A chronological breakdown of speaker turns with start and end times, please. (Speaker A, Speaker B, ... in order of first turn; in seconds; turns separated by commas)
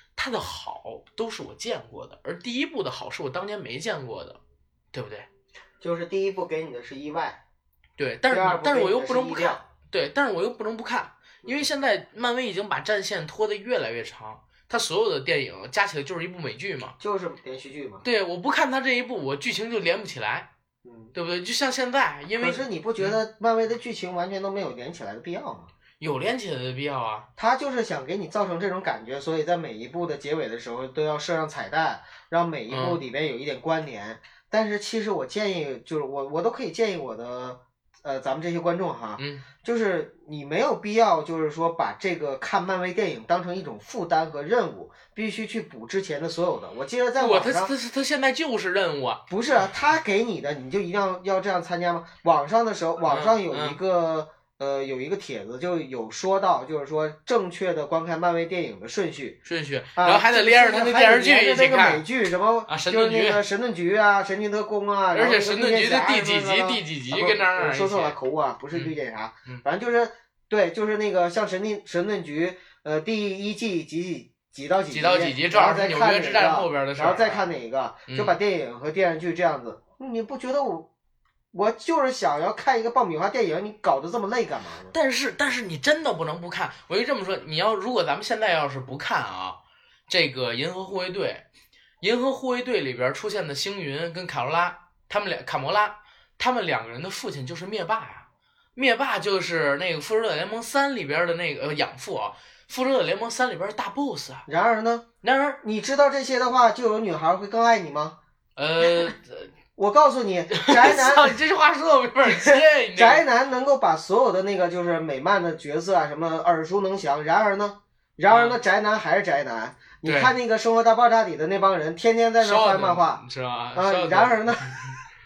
Speaker A: 0.2-4.4, Speaker A: 4.9-5.3, Speaker B: 5.8-7.4, Speaker A: 8.0-17.0, Speaker B: 8.3-9.6, Speaker B: 17.0-18.1, Speaker A: 18.0-20.5, Speaker B: 20.8-21.1, Speaker A: 21.1-23.2, Speaker B: 22.4-25.7, Speaker A: 26.0-27.3, Speaker B: 27.4-47.7, Speaker A: 32.7-33.0, Speaker A: 39.2-39.5, Speaker A: 47.2-49.2, Speaker B: 49.3-59.4, Speaker A: 53.0-53.8, Speaker A: 59.5-62.1, Speaker B: 60.0-80.9, Speaker A: 62.7-63.5, Speaker A: 65.1-68.2, Speaker A: 74.9-77.5, Speaker A: 78.1-78.4, Speaker B: 81.5-84.9, Speaker A: 84.9-91.4, Speaker A: 92.0-104.5, Speaker B: 104.5-105.1, Speaker A: 105.2-105.6, Speaker B: 105.6-108.2, Speaker A: 108.6-109.5, Speaker B: 109.8-111.4, Speaker A: 110.5-113.2, Speaker B: 112.2-123.2, Speaker A: 118.3-118.6, Speaker A: 120.0-120.3, Speaker A: 122.4-125.0, Speaker B: 123.7-124.9